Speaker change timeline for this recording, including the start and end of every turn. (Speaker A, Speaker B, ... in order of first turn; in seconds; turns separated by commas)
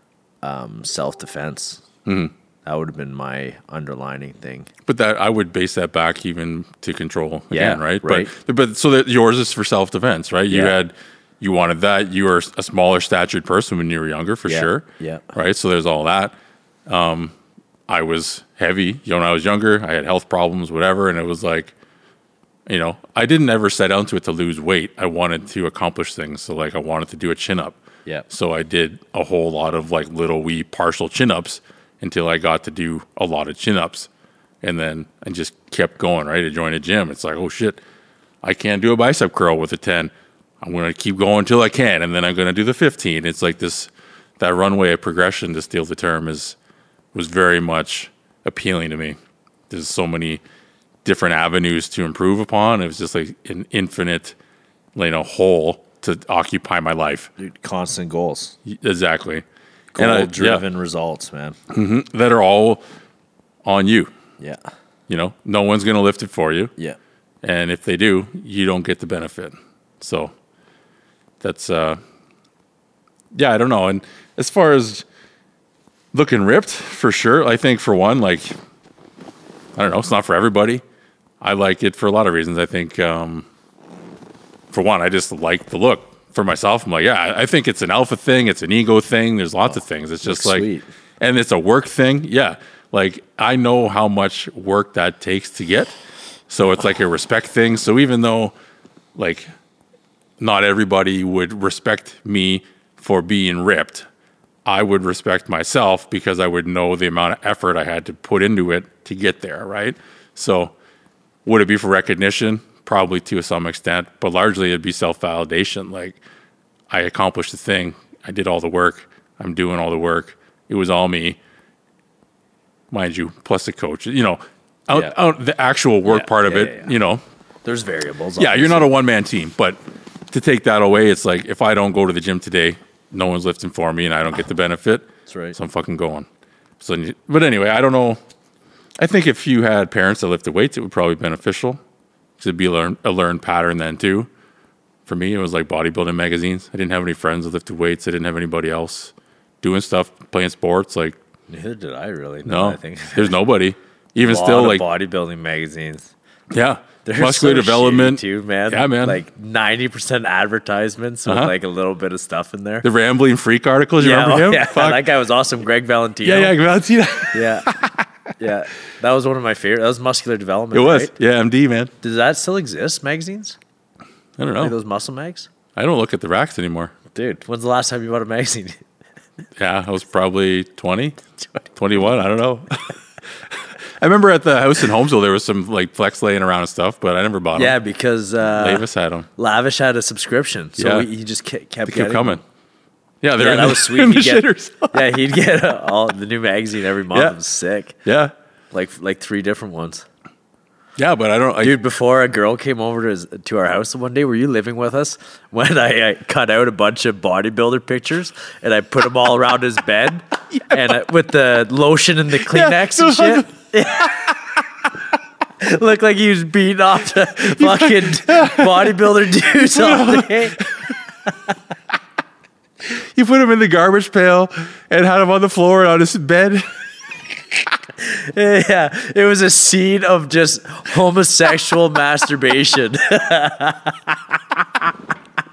Speaker A: 0.4-1.8, Speaker B: 2.0-2.3, Speaker A: 2.6-4.7, Speaker B: 4.9-16.3, Speaker A: 7.5-8.3, Speaker A: 10.5-10.8, Speaker A: 14.4-15.3, Speaker B: 16.9-17.3, Speaker B: 17.9-21.7, Speaker B: 22.6-34.1, Speaker B: 34.6-37.8, Speaker B: 38.4-46.5, Speaker B: 47.1-49.2, Speaker B: 49.7-50.4, Speaker B: 51.0-54.4, Speaker B: 54.9-57.3, Speaker A: 57.4-58.5, Speaker B: 58.6-59.4, Speaker A: 59.9-61.6, Speaker B: 60.0-60.6, Speaker B: 61.7-62.8, Speaker B: 63.6-64.1, Speaker B: 65.1-66.7, Speaker B: 67.4-70.3, Speaker B: 71.4-72.0, Speaker B: 73.3-75.0, Speaker B: 76.1-78.5, Speaker B: 79.8-80.8, Speaker B: 81.4-83.5, Speaker B: 84.7-90.7, Speaker A: 90.2-90.8, Speaker B: 91.2-95.9, Speaker B: 96.5-98.5, Speaker B: 99.1-99.5, Speaker B: 100.4-104.0, Speaker B: 104.7-110.7, Speaker B: 111.4-116.2, Speaker B: 116.9-121.4, Speaker B: 122.9-127.2, Speaker A: 126.1-126.9, Speaker A: 127.6-128.9, Speaker B: 128.4-129.8, Speaker B: 130.3-136.3, Speaker A: 135.3-135.6, Speaker B: 136.8-138.2, Speaker B: 139.0-141.8, Speaker B: 142.4-144.3, Speaker B: 145.1-151.2, Speaker A: 151.5-153.3, Speaker B: 152.4-154.8, Speaker A: 154.2-156.1, Speaker B: 156.5-159.2, Speaker A: 157.0-162.9, Speaker B: 161.3-161.5, Speaker B: 162.8-165.0, Speaker A: 164.0-166.6, Speaker B: 166.2-168.1, Speaker A: 167.3-167.7, Speaker A: 168.4-171.1, Speaker B: 170.7-171.9, Speaker A: 172.0-173.6, Speaker B: 174.4-174.7, Speaker A: 174.6-175.5, Speaker B: 175.8-176.9, Speaker A: 177.1-178.8, Speaker B: 179.6-181.2, Speaker B: 181.7-183.0, Speaker B: 183.5-187.8, Speaker A: 187.6-188.9, Speaker B: 188.6-189.3, Speaker A: 189.4-192.4, Speaker B: 190.8-191.1, Speaker B: 191.9-192.4, Speaker B: 193.2-195.1, Speaker A: 193.4-197.9, Speaker B: 198.1-198.3, Speaker A: 198.7-200.1, Speaker B: 201.0-201.8, Speaker A: 201.6-214.3, Speaker B: 212.4-214.3, Speaker A: 215.6-220.6, Speaker B: 217.5-219.0, Speaker B: 219.6-220.9, Speaker B: 222.9-226.7, Speaker A: 228.0-234.6